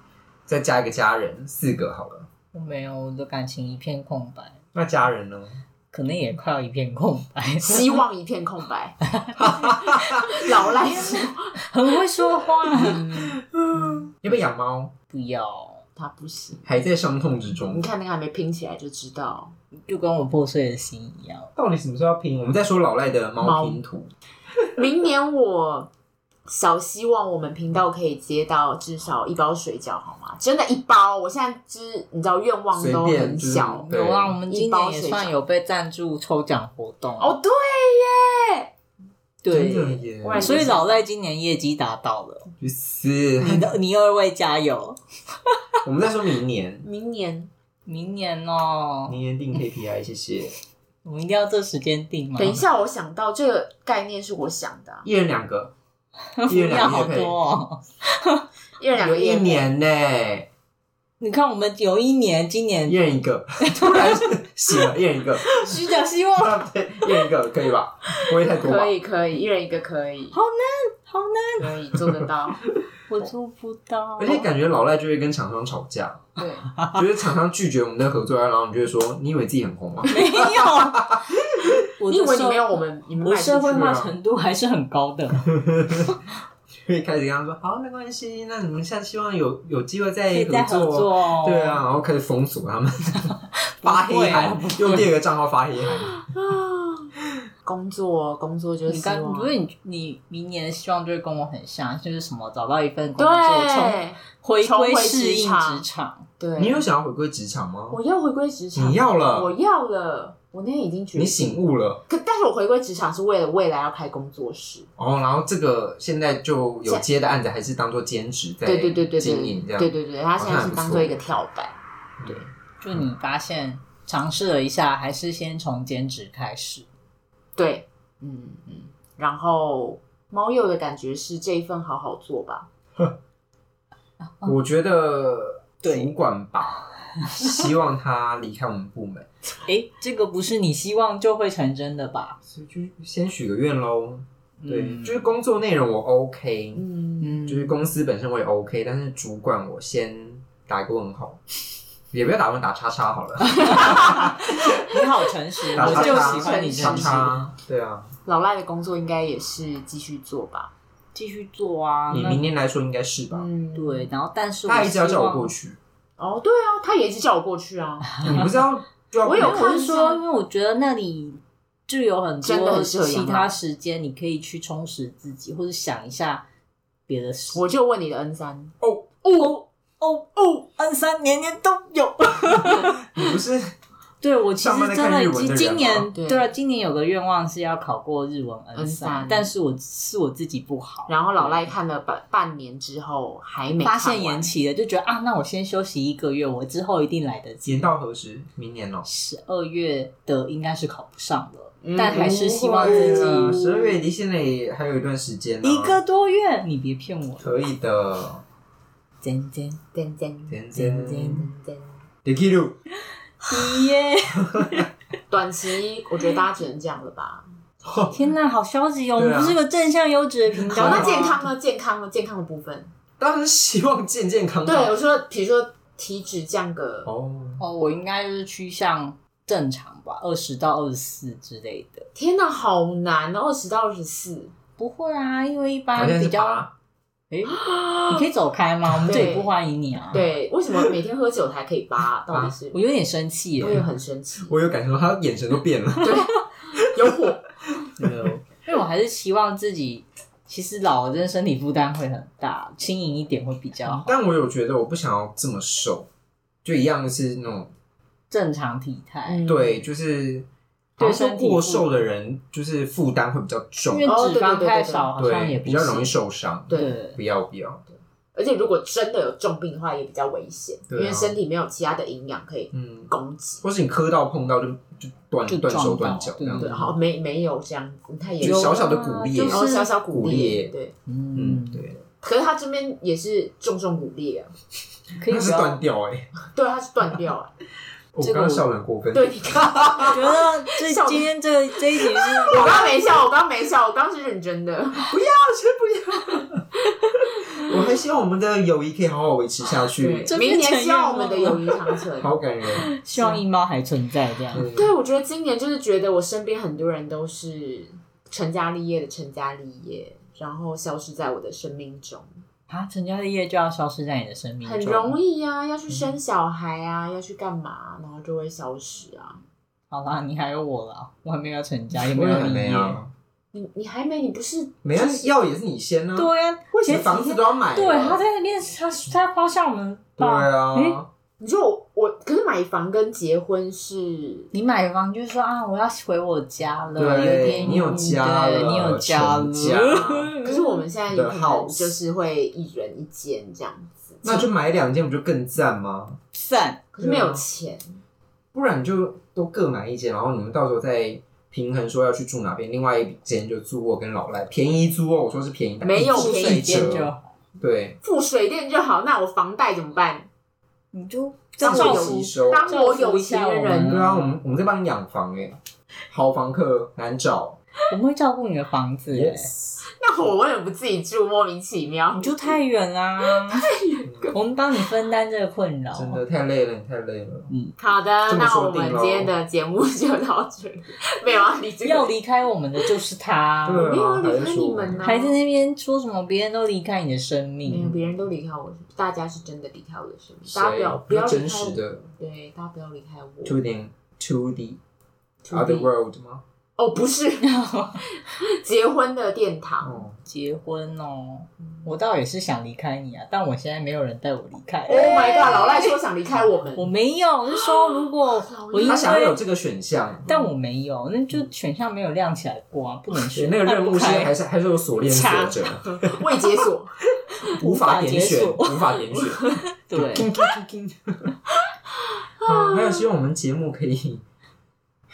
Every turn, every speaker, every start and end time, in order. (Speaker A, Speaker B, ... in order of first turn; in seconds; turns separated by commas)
Speaker A: 0.5-2.3, Speaker B: 2.5-4.6, Speaker A: 4.7-5.6, Speaker B: 5.9-8.0, Speaker C: 7.6-9.0, Speaker B: 9.1-13.3, Speaker A: 9.3-10.4, Speaker C: 10.2-11.6, Speaker C: 12.7-13.2, Speaker A: 12.8-14.9, Speaker B: 15.1-15.8, Speaker C: 16.0-16.7, Speaker A: 16.6-17.9, Speaker C: 17.7-19.5, Speaker B: 19.9-21.5, Speaker A: 21.6-24.1, Speaker C: 23.4-23.8, Speaker C: 24.7-25.9, Speaker C: 26.5-33.9, Speaker A: 32.7-34.4, Speaker B: 33.9-37.4, Speaker C: 34.5-35.3, Speaker C: 37.2-38.7, Speaker B: 39.4-42.5, Speaker A: 39.5-40.7, Speaker C: 40.2-41.0, Speaker A: 42.6-43.7, Speaker B: 43.4-45.6, Speaker A: 45.8-46.9, Speaker C: 46.8-47.5, Speaker B: 47.9-49.2, Speaker A: 49.1-50.5, Speaker B: 51.0-52.6, Speaker C: 52.4-55.1, Speaker A: 55.0-55.7, Speaker B: 56.4-58.5, Speaker A: 56.5-57.4, Speaker C: 58.8-59.7, Speaker A: 59.0-60.5, Speaker B: 61.2-63.0, Speaker A: 62.9-68.9, Speaker B: 63.6-64.4, Speaker B: 65.5-67.2, Speaker C: 68.6-70.3, Speaker B: 70.3-71.7, Speaker C: 71.6-72.6, Speaker B: 73.1-74.5, Speaker A: 74.2-76.3, Speaker C: 76.4-76.7, Speaker A: 76.9-81.8, Speaker B: 80.1-81.1, Speaker B: 82.0-85.5, Speaker C: 82.1-84.0, Speaker A: 83.7-84.1, Speaker A: 85.5-86.2, Speaker A: 86.8-96.2, Speaker B: 90.3-91.8, Speaker B: 93.5-95.1, Speaker C: 96.1-97.1, Speaker C: 97.6-99.5, Speaker B: 98.9-106.2, Speaker C: 103.2-105.8, Speaker C: 106.4-106.8, Speaker A: 106.6-108.0, Speaker C: 107.9-114.9, Speaker A: 108.7-109.5, Speaker A: 111.1-112.0, Speaker A: 115.0-121.2, Speaker C: 118.6-121.7, Speaker A: 122.2-123.0, Speaker B: 122.8-126.8, Speaker C: 127.6-132.7, Speaker B: 134.3-134.6, Speaker A: 134.4-139.3, Speaker B: 135.8-136.1, Speaker B: 137.2-137.6, Speaker B: 139.6-142.4, Speaker A: 142.4-146.8, Speaker B: 144.6-145.2, Speaker C: 146.7-147.4, Speaker B: 147.2-147.7, Speaker A: 147.4-151.4, Speaker A: 152.1-154.9, Speaker B: 153.5-157.3, Speaker C: 155.7-157.3, Speaker A: 155.8-158.1, Speaker C: 158.2-160.7, Speaker B: 161.1-162.5, Speaker A: 162.1-163.5, Speaker C: 163.3-164.1, Speaker B: 163.7-165.5, Speaker A: 164.7-165.8, Speaker C: 166.2-168.2, Speaker B: 168.1-168.5, Speaker A: 168.2-169.7, Speaker C: 169.2-170.2, Speaker B: 169.3-176.4, Speaker C: 172.4-173.5, Speaker B: 177.1-177.6, Speaker C: 177.5-179.6, Speaker A: 178.8-179.1, Speaker B: 179.2-183.1, Speaker A: 182.6-183.7, Speaker B: 184.2-191.7, Speaker A: 184.6-186.1, Speaker C: 186.1-186.5, Speaker C: 188.7-189.5, Speaker C: 191.1-194.5, Speaker B: 193.8-197.9, Speaker A: 197.6-199.1, Speaker B: 199.0-203.6, Speaker C: 201.8-203.9, Speaker A: 202.0-206.0, Speaker B: 205.6-207.5, Speaker A: 207.4-208.4, Speaker B: 209.2-209.8, Speaker C: 209.9-211.9, Speaker A: 210.5-211.5, Speaker B: 210.7-211.4, Speaker A: 212.2-212.8, Speaker B: 213.4-214.9, Speaker A: 214.5-214.8, Speaker C: 215.3-217.4, Speaker A: 217.8-218.2, Speaker B: 218.1-221.5, Speaker A: 219.2-219.6, Speaker A: 220.5-221.1, Speaker C: 220.8-222.9, Speaker A: 223.2-224.9, Speaker C: 224.6-227.1, Speaker A: 227.1-227.6, Speaker B: 227.6-232.1, Speaker C: 232.1-234.5, Speaker B: 234.8-236.6, Speaker A: 235.9-236.7, Speaker B: 237.3-240.2, Speaker C: 237.6-238.2, Speaker C: 239.0-239.5, Speaker C: 240.1-242.8, Speaker B: 242.7-243.8, Speaker C: 243.6-244.6, Speaker A: 244.5-247.3, Speaker C: 246.0-247.4, Speaker B: 248.0-254.1, Speaker A: 248.0-248.3, Speaker A: 253.8-256.1, Speaker A: 256.6-257.7, Speaker B: 258.3-259.4, Speaker C: 259.2-259.8, Speaker A: 259.4-260.5, Speaker B: 261.0-261.9, Speaker A: 261.0-264.1, Speaker B: 263.9-266.1, Speaker C: 264.1-265.1, Speaker A: 265.2-267.8, Speaker C: 266.7-267.0, Speaker B: 266.7-267.2, Speaker C: 268.3-273.6, Speaker A: 270.9-271.4, Speaker A: 272.7-273.1, Speaker A: 273.6-276.8, Speaker B: 275.5-276.9, Speaker C: 276.6-280.9, Speaker A: 278.4-280.7, Speaker B: 278.4-279.9, Speaker B: 281.1-281.9, Speaker A: 281.3-282.0, Speaker C: 282.1-284.5, Speaker B: 285.2-285.8, Speaker A: 285.3-286.3, Speaker C: 286.4-287.5, Speaker A: 288.1-290.2, Speaker B: 288.2-288.6, Speaker C: 289.1-291.3, Speaker B: 290.0-292.9, Speaker C: 292.5-295.1, Speaker A: 295.1-300.3, Speaker C: 297.6-297.9, Speaker C: 300.0-303.4, Speaker B: 300.3-302.0, Speaker A: 302.2-302.9, Speaker B: 302.8-304.7, Speaker A: 304.5-304.9, Speaker C: 304.6-312.3, Speaker B: 312.7-315.2, Speaker C: 314.6-319.4, Speaker B: 319.9-323.0, Speaker A: 321.9-323.1, Speaker C: 323.5-325.3, Speaker A: 324.8-328.2, Speaker B: 326.1-331.0, Speaker A: 330.2-331.1, Speaker C: 331.4-334.5, Speaker B: 334.5-340.8, Speaker A: 336.9-340.3, Speaker C: 340.4-344.5, Speaker A: 341.1-342.0, Speaker A: 344.2-346.2, Speaker B: 346.3-346.8, Speaker C: 346.9-348.0, Speaker A: 347.0-347.4, Speaker A: 348.5-358.0, Speaker C: 355.8-357.0, Speaker B: 356.0-357.3, Speaker C: 358.0-360.3, Speaker B: 360.9-364.3, Speaker C: 361.6-364.1, Speaker A: 361.6-362.7, Speaker A: 363.9-365.6, Speaker A: 366.1-367.6, Speaker B: 367.9-369.5, Speaker A: 369.1-369.9, Speaker C: 369.9-372.6, Speaker B: 372.1-373.7, Speaker C: 373.2-374.4, Speaker B: 374.3-376.2, Speaker A: 375.9-377.5, Speaker B: 377.5-377.8, Speaker C: 377.8-382.1, Speaker A: 378.3-379.3, Speaker B: 381.8-383.9, Speaker A: 383.6-385.1, Speaker C: 383.8-385.4, Speaker B: 385.0-388.0, Speaker C: 387.6-393.6, Speaker A: 390.5-392.0, Speaker A: 393.4-394.8, Speaker C: 395.4-395.9, Speaker A: 395.5-396.4, Speaker C: 396.8-400.0, Speaker B: 397.4-398.1, Speaker A: 399.8-400.2, Speaker B: 400.2-405.9, Speaker C: 404.9-406.9, Speaker B: 406.7-409.4, Speaker C: 408.4-409.1, Speaker A: 408.8-410.5, Speaker B: 410.2-414.3, Speaker A: 413.3-416.2, Speaker B: 415.1-415.6, Speaker C: 416.0-416.9, Speaker B: 417.5-420.3, Speaker A: 417.5-421.3, Speaker C: 422.0-423.1, Speaker A: 422.4-424.2